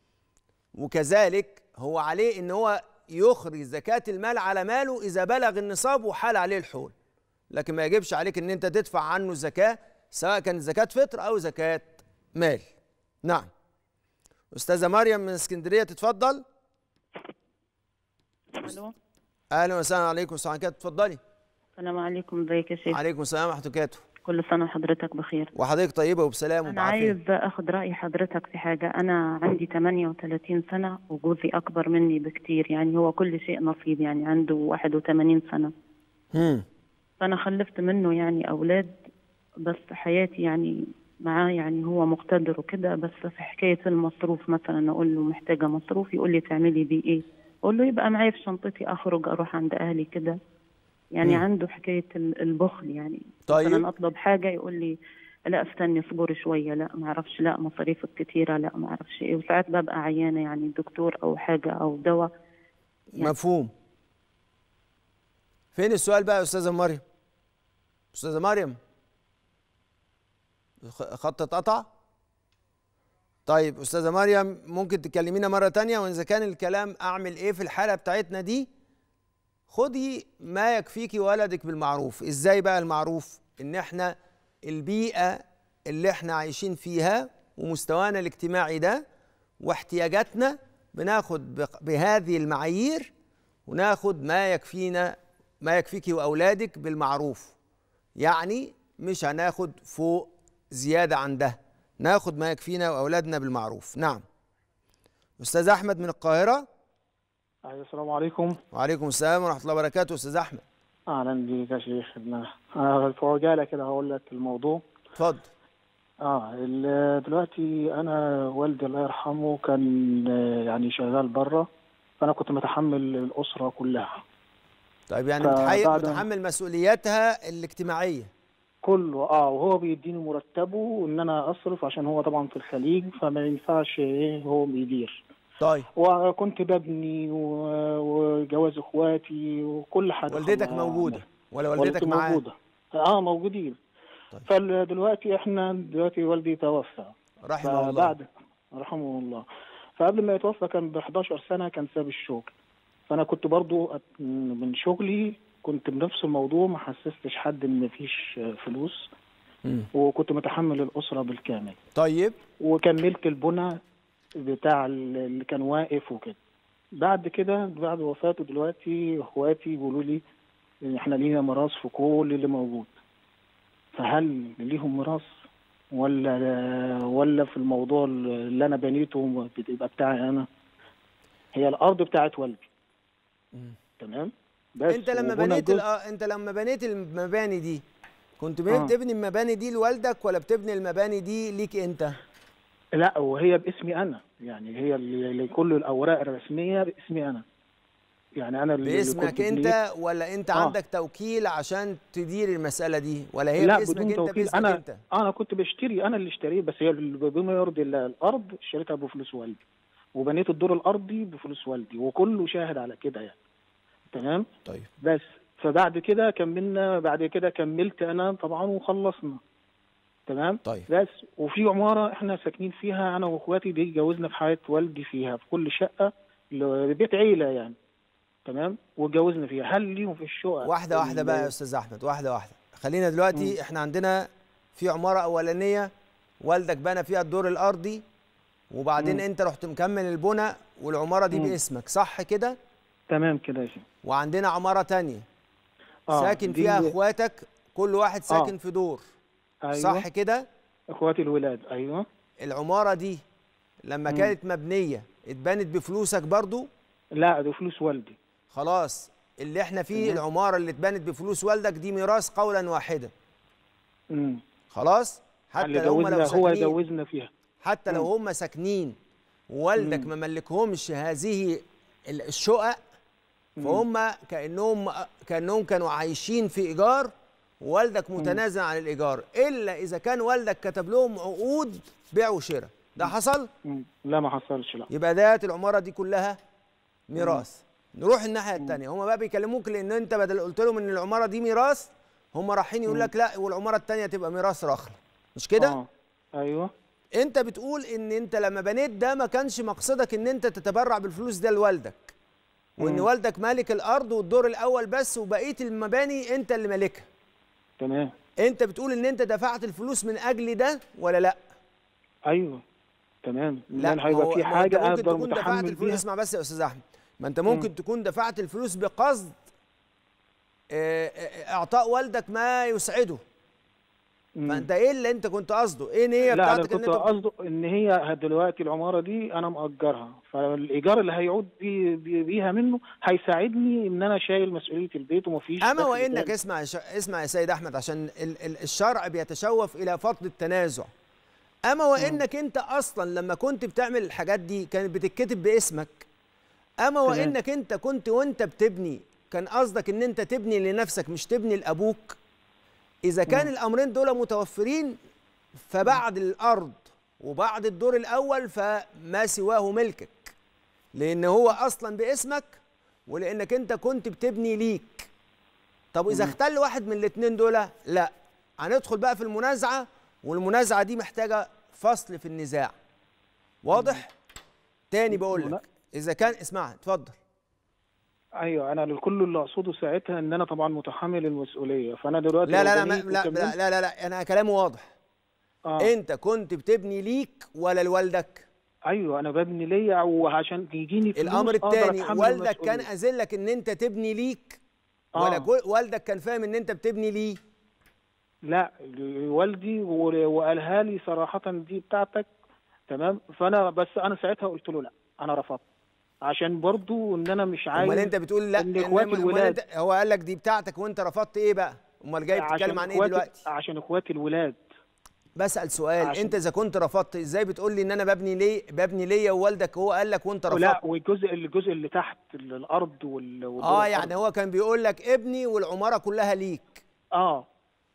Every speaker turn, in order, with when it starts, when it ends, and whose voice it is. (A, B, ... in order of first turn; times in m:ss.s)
0:00.8-0:06.9 A
0:07.5-0:12.7 A
0:13.2-0:13.5 A
0:14.5-0:16.4 A
0:18.5-0:18.9 B
0:19.5-0:21.2 A
0:21.8-0:23.0 B
0:22.9-0:24.0 A
0:24.2-0:25.5 B
0:25.5-0:27.2 A
0:26.7-0:35.7 B
0:36.3-0:36.6 A
0:37.2-0:39.0 B
0:39.6-0:50.4 B
0:51.1-0:54.9 B
0:53.5-0:53.8 A
0:55.5-1:02.3 B
1:03.2-1:03.7 A
1:05.7-1:07.0 A
1:08.1-1:08.8 A
1:10.8-1:11.9 A
1:13.4-1:18.7 A
1:19.7-1:29.0 A
1:29.6-1:33.1 A
1:33.7-1:37.5 A
1:38.2-1:44.2 A
1:45.4-1:46.6 A
1:47.6-1:48.6 C
1:48.7-1:50.6 A
1:51.1-1:54.8 C
1:55.2-1:55.5 A
1:56.2-2:01.7 C
2:02.2-2:04.2 C
2:05.1-2:08.3 A
2:05.4-2:06.2 C
2:08.8-2:15.2 C
2:15.6-2:15.9 A
2:16.0-2:21.2 C
2:20.3-2:22.4 A
2:21.8-2:23.8 C
2:24.4-2:27.1 C
2:27.4-2:28.1 A
2:27.6-2:29.4 C
2:30.0-2:32.5 C
2:33.1-2:39.1 C
2:39.9-2:41.8 C
2:41.9-2:42.4 A
2:42.6-2:43.8 C
2:44.4-2:46.4 C
2:47.0-2:50.2 C
2:50.8-2:53.0 C
2:53.9-2:55.3 C
2:55.9-3:00.5 C
3:01.5-3:02.7 C
3:04.0-3:05.8 C
3:04.9-3:07.8 A
3:08.4-3:12.2 A
3:13.0-3:17.4 C
3:18.4-3:19.8 C
3:18.8-3:25.0 A
3:23.6-3:29.6 C
3:30.1-3:33.4 C
3:34.1-3:34.4 C
3:35.0-3:39.4 C
3:40.3-3:47.7 C
3:48.4-3:51.5 C
3:50.6-3:55.9 A
3:56.4-3:58.0 A
3:58.7-4:02.6 A
3:59.0-3:59.2 C
4:01.3-4:01.6 C
4:03.1-4:03.8 C
4:04.0-4:05.2 A
4:06.1-4:06.9 C
4:06.1-4:09.0 A
4:08.3-4:08.5 C
4:09.6-4:10.1 C
4:09.7-4:10.5 A
4:10.9-4:12.0 C
4:12.4-4:13.2 A
4:13.9-4:16.7 A
4:14.1-4:14.3 C
4:17.2-4:18.2 C
4:18.5-4:23.1 A
4:19.9-4:20.2 C
4:24.1-4:24.4 C
4:24.7-4:26.8 A
4:25.6-4:27.3 C
4:27.6-4:29.0 A
4:29.5-4:32.8 A
4:29.8-4:30.1 C
4:33.6-4:33.8 C
4:33.6-4:43.5 A
4:43.6-4:44.9 C
4:44.9-4:46.4 A
4:47.1-4:55.8 A
4:47.2-4:47.4 C
4:55.6-4:56.7 C
4:57.2-5:02.1 A
5:02.8-5:03.1 C
5:02.8-5:07.1 A
5:07.8-5:08.1 C
5:08.4-5:11.4 A
5:12.3-5:12.6 C
5:13.2-5:16.0 C
5:13.8-5:19.3 A
5:20.7-5:23.2 A
5:24.4-5:24.7 C
5:24.4-5:27.1 A
5:26.3-5:36.3 C
5:35.6-5:40.9 A
5:41.7-5:46.1 A
5:42.0-5:42.2 C
5:46.8-5:52.2 A
5:47.0-5:47.4 C
5:53.0-5:55.0 A
5:55.7-6:00.3 A
6:00.9-6:05.1 A
6:05.9-6:12.7 A
6:06.1-6:06.3 C
6:13.6-6:14.1 A
6:13.7-6:14.0 C
6:14.9-6:17.2 A
6:15.2-6:15.6 C
6:18.4-6:23.5 C
6:22.4-6:24.9 A
6:25.6-6:25.9 C
6:25.8-6:28.4 A
6:28.9-6:32.9 C
6:31.2-6:34.6 A
6:35.2-6:35.5 C
6:35.2-6:37.4 A
6:38.5-6:42.3 C
6:42.9-6:45.6 C
6:46.2-6:49.6 C
6:47.7-6:53.4 A
6:52.3-6:54.6 C
6:55.4-7:00.8 A
6:56.0-6:56.4 C
7:00.5-7:04.1 C
7:03.6-7:06.8 A
7:07.2-7:07.4 C